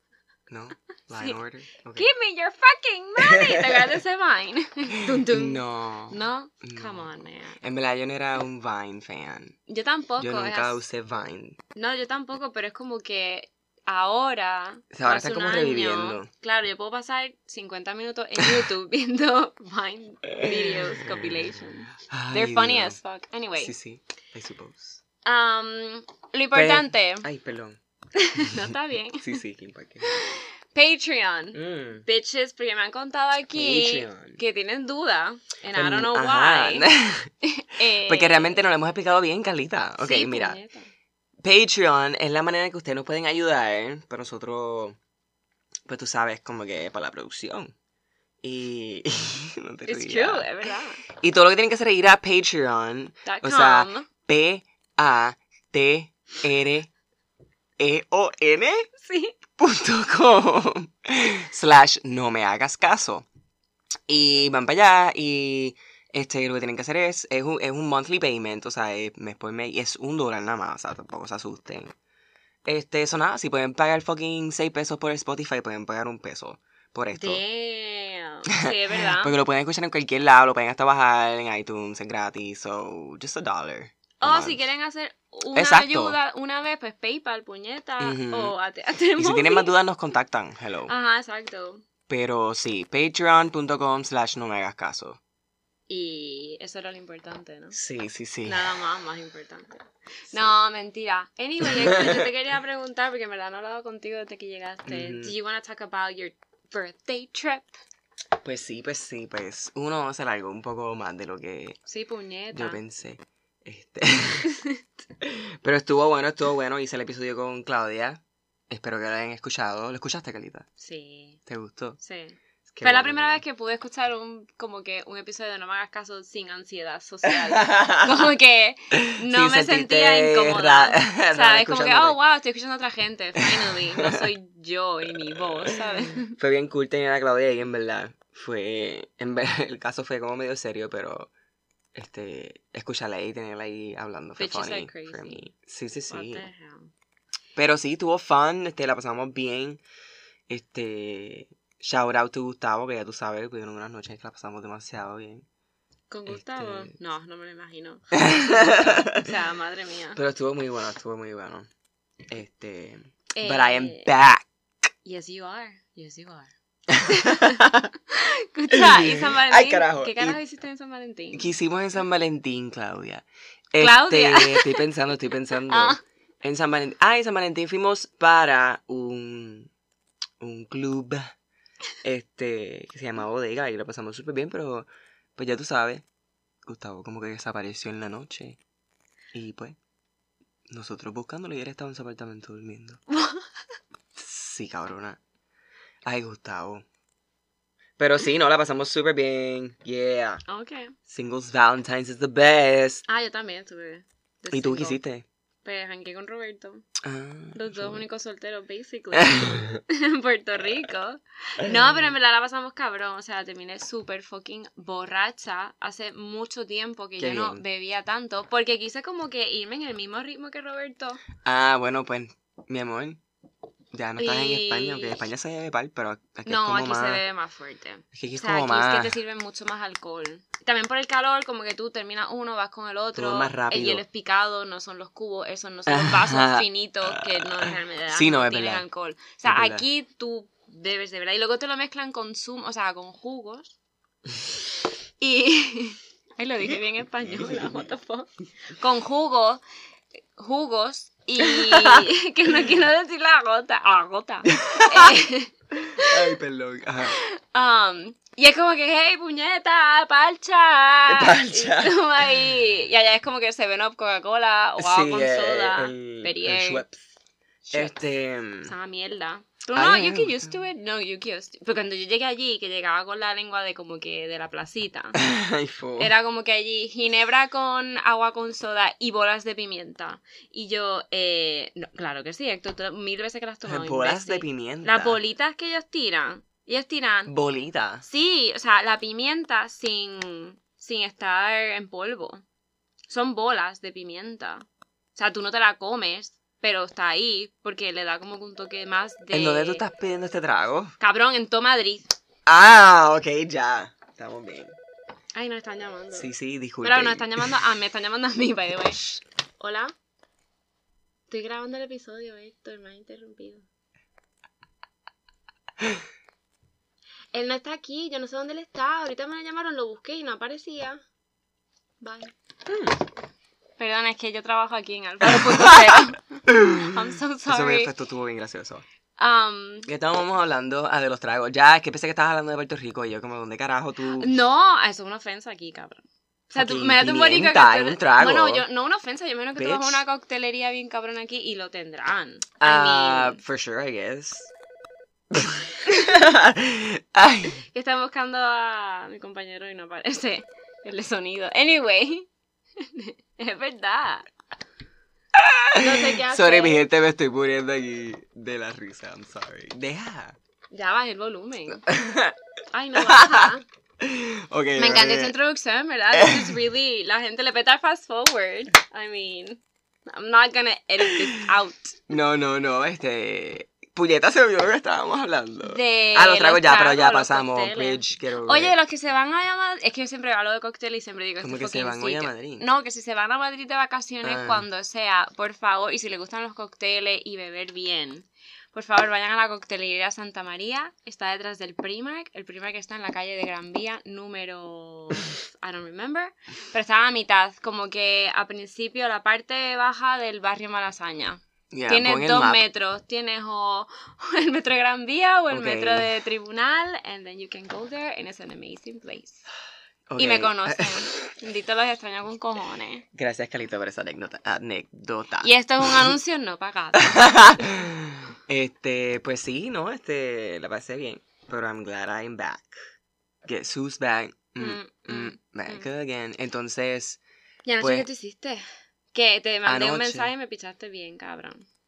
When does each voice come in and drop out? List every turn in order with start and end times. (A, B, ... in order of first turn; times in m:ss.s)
0:00.5-0:02.1 A
0:01.9-0:07.6 B
0:03.2-0:04.0 A
0:05.0-0:07.0 A
0:07.6-0:09.6 A
0:09.7-0:10.8 B
0:10.2-0:11.6 A
0:11.8-0:23.7 B
0:14.9-0:16.3 A
0:20.4-0:21.4 A
0:22.1-0:23.0 A
0:23.6-0:25.0 A
0:25.2-0:27.3 B
0:26.5-0:27.8 A
0:28.2-0:29.4 B
0:29.2-0:30.2 A
0:30.0-0:36.9 B
0:31.5-0:32.0 A
0:33.5-0:34.4 A
0:35.7-0:37.3 A
0:37.4-0:38.6 B
0:38.0-0:40.6 A
0:40.0-0:40.9 B
0:41.4-0:45.0 A
0:45.9-0:47.7 A
0:48.4-0:56.9 A
0:49.9-0:51.0 B
0:53.2-0:54.1 B
0:57.8-0:58.8 A
0:59.0-0:59.4 B
0:59.6-1:03.2 A
1:04.1-1:11.9 A
1:12.6-1:17.4 A
1:17.1-1:19.3 B
1:18.5-1:24.6 A
1:24.2-1:29.7 B
1:25.5-1:26.2 A
1:28.0-1:28.5 A
1:29.2-1:30.9 A
1:30.9-1:31.8 B
1:32.1-1:35.2 A
1:35.9-1:37.8 B
1:37.7-1:38.8 A
1:38.4-1:47.7 B
1:41.6-1:42.3 A
1:44.9-1:45.3 A
1:48.4-1:51.8 A
1:51.9-1:52.8 B
1:52.5-1:54.5 A
1:54.4-1:54.8 B
1:55.2-2:00.7 A
2:00.8-2:01.4 B
2:01.4-2:02.0 A
2:02.0-2:16.4 B
2:02.6-2:03.4 A
2:07.2-2:08.3 A
2:08.9-2:12.2 A
2:13.4-2:14.2 A
2:15.6-2:21.3 A
2:21.9-2:26.4 A
2:24.4-2:25.5 B
2:26.1-2:26.9 B
2:27.6-2:29.8 A
2:30.5-2:35.4 A
2:36.1-2:40.2 B
2:36.3-2:36.9 A
2:38.1-2:39.3 A
2:40.1-2:41.7 A
2:42.3-2:44.5 A
2:43.4-2:44.1 B
2:45.0-2:46.5 B
2:46.9-2:47.9 A
2:47.0-2:51.5 B
2:48.7-2:50.4 A
2:51.3-2:59.7 A
2:53.8-2:54.8 B
2:55.7-2:56.0 B
3:00.4-3:01.3 A
3:02.0-3:06.0 A
3:06.6-3:08.6 A
3:09.3-3:09.8 A
3:10.7-3:13.0 A
3:13.1-3:13.5 B
3:14.2-3:15.2 A
3:16.0-3:16.8 A
3:18.0-3:20.4 A
3:20.5-3:20.9 B
3:21.1-3:23.0 A
3:23.1-3:25.0 B
3:24.5-3:25.2 A
3:25.6-3:26.8 B
3:27.0-3:28.0 A
3:27.5-3:41.2 B
3:29.2-3:29.8 A
3:37.2-3:37.6 A
3:41.4-3:43.2 A
3:43.9-3:47.2 A
3:44.2-3:45.2 B
3:46.4-4:03.7 B
3:48.1-3:49.2 A
3:53.1-3:54.0 A
3:55.9-3:58.8 A
3:59.4-3:59.8 A
4:05.2-4:09.6 B
4:07.2-4:07.8 A
4:10.4-4:16.3 B
4:11.4-4:12.0 A
4:14.5-4:15.2 A
4:15.7-4:17.2 A
4:17.0-4:26.8 B
4:21.1-4:22.2 A
4:24.8-4:27.1 A
4:27.7-4:27.9 B
4:27.7-4:28.7 A
4:28.6-4:35.2 B
4:29.7-4:30.6 A
4:35.1-4:36.1 A
4:36.0-4:47.3 B
4:43.6-4:45.2 A
4:47.3-4:48.0 A
4:48.0-4:52.4 B
4:53.1-4:59.8 B
4:59.3-5:00.9 A
5:01.0-5:02.1 B
5:02.4-5:04.7 A
5:05.3-5:06.3 B
5:06.1-5:07.6 A
5:06.8-5:09.9 B
5:11.3-5:13.6 B
5:17.3-5:21.0 B
5:22.0-5:22.3 B
5:22.7-5:23.0 A
5:23.8-5:27.9 B
5:25.2-5:27.0 A
5:27.5-5:28.8 A
5:29.2-5:29.9 B
5:29.8-5:34.3 A
5:34.2-5:43.4 B
5:36.5-5:38.6 A
5:39.6-5:40.0 A
5:42.6-5:44.5 A
5:45.3-5:47.6 A
5:47.7-5:52.3 B
5:52.8-5:54.2 B
5:55.3-6:00.4 A
5:55.7-5:56.8 B
6:00.7-6:01.9 B
6:01.9-6:02.4 A
6:02.7-6:03.6 B
6:02.9-6:05.3 A
6:04.8-6:12.0 B
6:06.1-6:06.6 A
6:12.1-6:18.7 A
6:15.6-6:49.4 B
6:21.4-6:22.6 A
6:24.2-6:24.6 A
6:41.7-6:42.6 A
6:45.5-6:46.1 A
6:50.1-6:51.2 A
6:50.2-6:53.0 B
6:53.1-6:56.1 A
6:55.4-6:57.6 B
6:57.0-7:02.7 A
7:03.4-7:07.2 A
7:04.6-7:05.8 B
7:07.6-7:11.6 B
7:07.8-7:08.1 A
7:09.6-7:10.3 A